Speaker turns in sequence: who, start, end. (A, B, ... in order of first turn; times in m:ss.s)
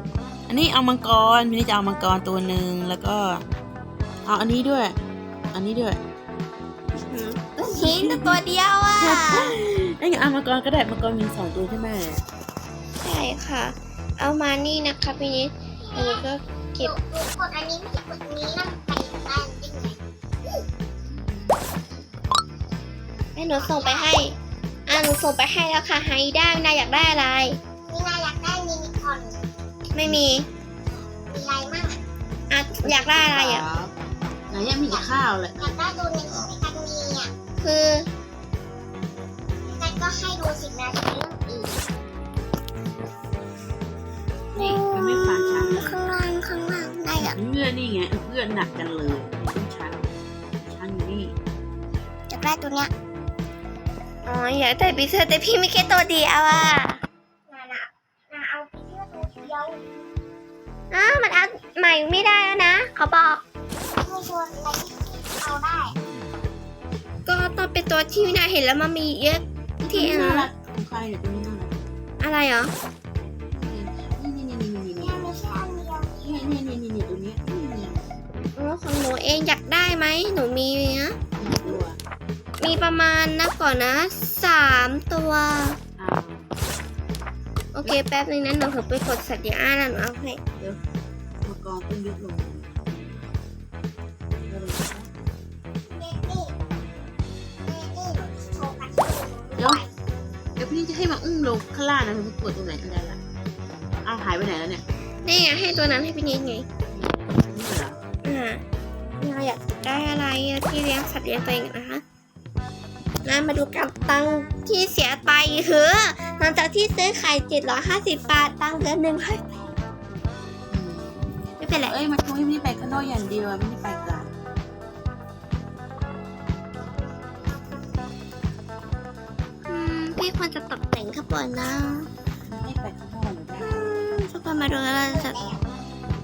0:00.5-0:03.4 A
0:04.3-0:05.0 A
0:05.5-0:06.0 A
0:07.1-0:09.6 B
0:07.6-0:08.4 A
0:09.0-0:12.2 A
0:13.0-0:16.9 B
0:15.9-0:16.2 C
0:16.8-0:20.6 C
0:21.1-0:21.6 A
0:23.4-0:24.3 B
0:23.6-0:24.2 C
0:24.9-0:27.6 B
0:27.9-0:29.4 C
0:29.9-0:30.4 B
0:30.9-0:32.0 C
0:32.5-0:33.6 B
0:32.8-0:33.9 A
0:34.5-0:35.7 A
0:34.5-0:35.1 C
0:35.6-0:37.3 C
0:37.6-0:38.1 B
0:39.6-0:41.8 C
0:44.6-0:46.1 A
0:45.0-0:47.4 C
0:47.2-0:51.3 A
0:52.3-0:52.9 C
0:54.2-0:57.0 B
0:57.5-1:00.1 C
1:00.9-1:03.4 B
1:04.0-1:06.0 C
1:07.3-1:10.5 B
1:09.8-1:11.9 A
1:12.2-1:12.7 B
1:13.5-1:15.4 A
1:15.0-1:16.5 C
1:16.2-1:18.2 A
1:18.6-1:21.8 B
1:21.4-1:22.0 A
1:22.6-1:25.8 B
1:26.0-1:26.5 A
1:27.8-1:30.4 B
1:31.4-1:33.2 A
1:34.5-1:35.1 A
1:35.9-1:36.6 C
1:37.6-1:39.9 C
1:39.6-1:39.8 A
1:40.6-1:43.2 A
1:44.0-1:44.8 A
1:45.2-1:46.7 B
1:46.9-1:48.0 A
1:48.2-1:48.6 B
1:49.2-1:52.0 B
1:53.2-1:59.7 B
2:00.7-2:04.3 A
2:01.6-2:02.0 B
2:09.7-2:12.1 B
2:12.5-2:13.9 A
2:13.6-2:15.4 B
2:15.1-2:15.6 C